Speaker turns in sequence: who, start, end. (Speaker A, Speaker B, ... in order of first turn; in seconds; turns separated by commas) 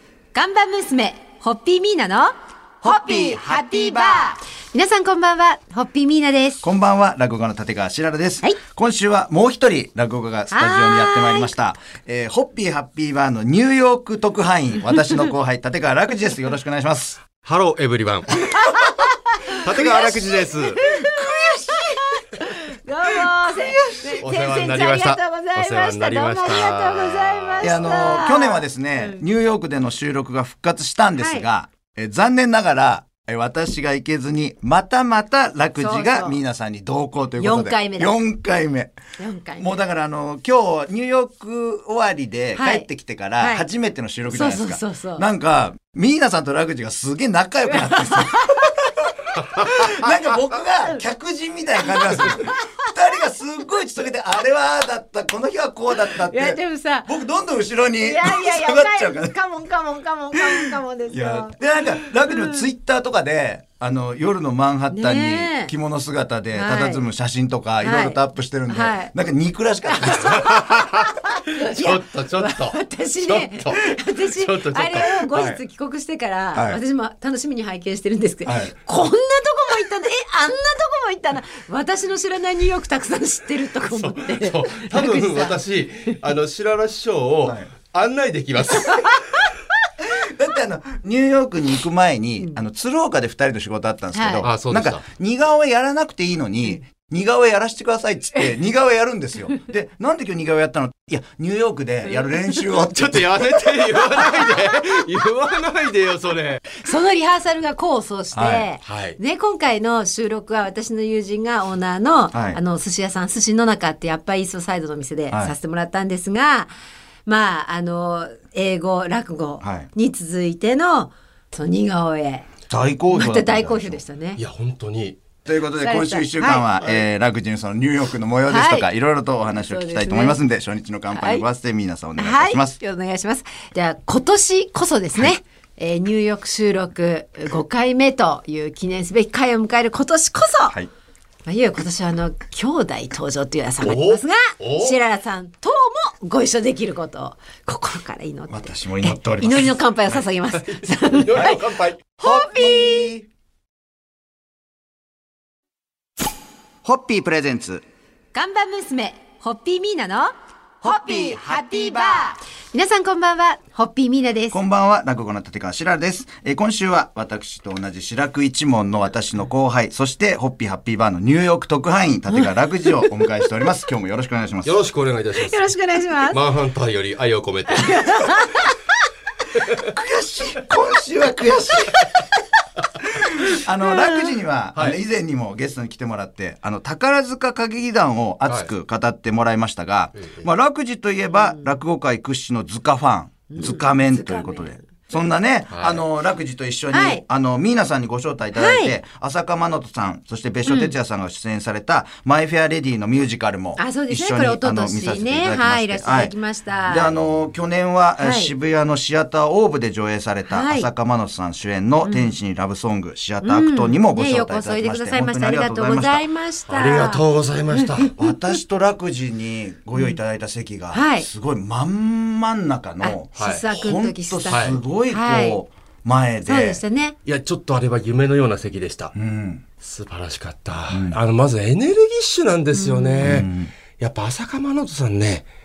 Speaker A: 0.3-6.7, Speaker B: 2.8-3.9, Speaker B: 6.6-17.2, Speaker A: 10.5-11.5, Speaker C: 17.4-18.7, Speaker A: 18.7-18.9, Speaker C: 19.6-20.8, Speaker B: 19.7-21.9, Speaker A: 20.7-29.2, Speaker B: 23.7-24.1, Speaker C: 24.0-28.2, Speaker B: 27.6-38.9, Speaker A: 31.2-31.5, Speaker A: 35.8-36.4, Speaker A: 37.4-38.2, Speaker A: 39.2-39.8, Speaker B: 39.6-48.7, Speaker A: 42.6-42.9, Speaker A: 43.4-43.6, Speaker A: 44.3-45.2, Speaker A: 47.7-48.8, Speaker C: 49.6-49.9, Speaker B: 49.6-59.4, Speaker A: 51.8-52.5, Speaker A: 56.1-57.1, Speaker A: 58.0-61.5, Speaker B: 60.5-70.5, Speaker A: 62.3-62.6, Speaker A: 64.9-65.7, Speaker A: 66.5-67.0, Speaker A: 67.8-69.1, Speaker A: 69.9-85.6, Speaker C: 70.4-75.3, Speaker B: 75.3-75.6, Speaker B: 76.5-76.8, Speaker B: 78.5-78.7, Speaker C: 83.8-89.5, Speaker B: 87.4-87.7, Speaker B: 90.2-104.0, Speaker A: 94.1-94.5, Speaker C: 94.4-95.0, Speaker C: 102.9-106.8, Speaker A: 106.8-116.7, Speaker B: 108.3-108.7, Speaker C: 108.8-109.2, Speaker B: 112.3-112.6, Speaker A: 117.3-122.5, Speaker B: 119.6-119.9, Speaker B: 122.7-124.0, Speaker A: 123.1-124.4, Speaker C: 124.4-125.2, Speaker B: 125.5-132.8, Speaker A: 125.8-126.7, Speaker A: 128.5-128.9, Speaker A: 129.6-130.4, Speaker A: 131.1-131.4, Speaker A: 132.2-140.8, Speaker A: 141.5-151.7, Speaker C: 143.8-145.0, Speaker B: 148.5-149.8, Speaker C: 150.5-152.1, Speaker A: 152.2-153.1, Speaker B: 152.2-153.3, Speaker B: 156.8-157.8, Speaker A: 158.3-164.6, Speaker B: 160.8-162.1, Speaker B: 164.5-174.8, Speaker C: 174.7-175.7, Speaker A: 175.4-176.4, Speaker C: 176.3-178.5, Speaker A: 177.8-178.7, Speaker B: 179.9-182.2, Speaker A: 181.9-182.2, Speaker B: 183.2-216.3, Speaker A: 183.9-184.2, Speaker C: 190.2-190.4, Speaker A: 191.3-191.7, Speaker A: 193.5-194.8, Speaker C: 195.7-196.1, Speaker A: 196.9-197.2, Speaker A: 198.6-199.0, Speaker A: 200.7-200.9, Speaker A: 203.8-207.1, Speaker A: 208.2-208.5, Speaker A: 210.5-210.9, Speaker A: 212.0-212.4, Speaker A: 213.4-217.2, Speaker C: 216.7-218.1, Speaker A: 217.8-218.3, Speaker B: 218.1-226.8, Speaker A: 220.9-221.3, Speaker A: 223.0-225.6, Speaker C: 223.4-223.7, Speaker C: 224.5-224.8, Speaker A: 226.4-227.2, Speaker C: 227.2-229.1, Speaker B: 229.1-229.6, Speaker C: 229.8-235.5, Speaker B: 230.9-231.2, Speaker A: 232.7-233.3, Speaker B: 233.2-233.7